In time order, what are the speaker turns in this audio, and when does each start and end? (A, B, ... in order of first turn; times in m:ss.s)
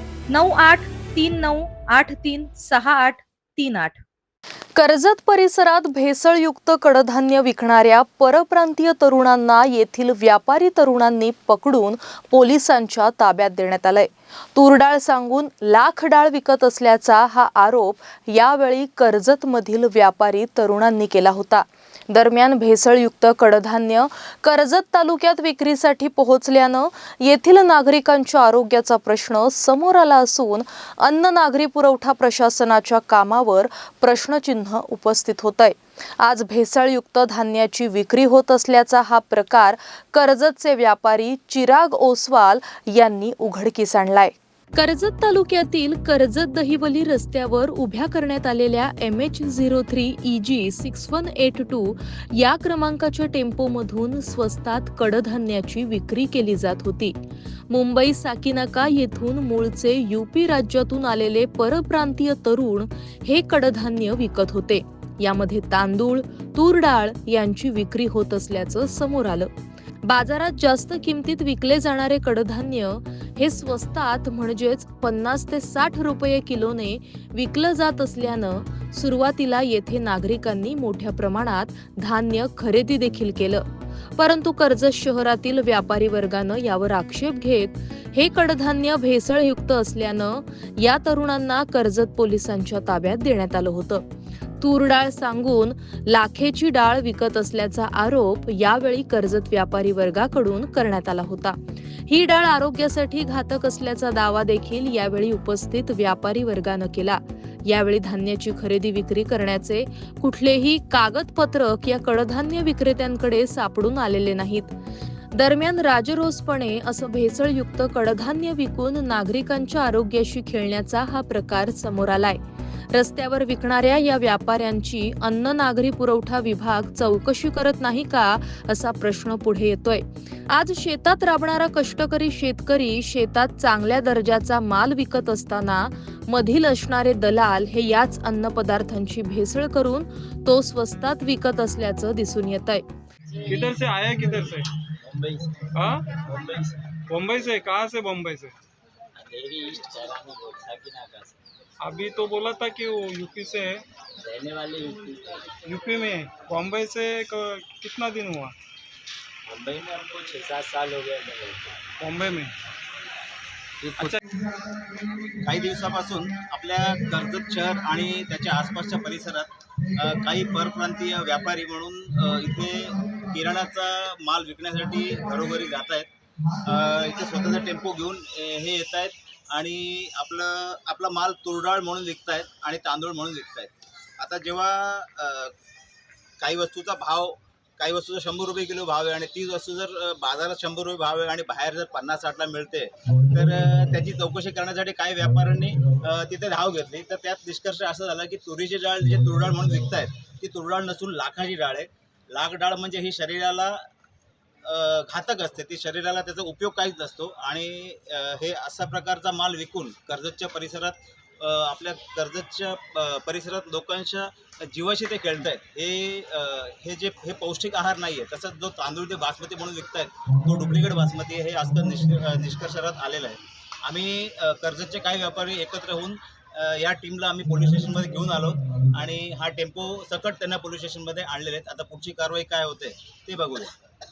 0:00.3-0:04.0 A
0:04.8-0:57.2 A
0:57.7-1:09.5 A
1:10.0-1:23.6 A
1:24.2-1:34.0 A
1:34.6-1:54.7 A
1:55.3-2:02.4 A
2:02.9-2:22.8 A
2:23.4-2:24.7 B
2:24.9-2:25.7 C
2:25.7-2:26.2 B
2:26.3-2:26.8 C
2:27.1-2:28.5 B
2:29.2-2:31.4 C
2:31.8-2:33.8 B
2:34.2-2:35.6 C
2:35.6-2:38.5 B
2:39.5-2:41.8 C
2:42.0-2:42.5 B
2:43.8-2:44.2 C
2:45.4-3:05.5 D
3:06.4-3:23.9 D
3:24.6-3:53.8 D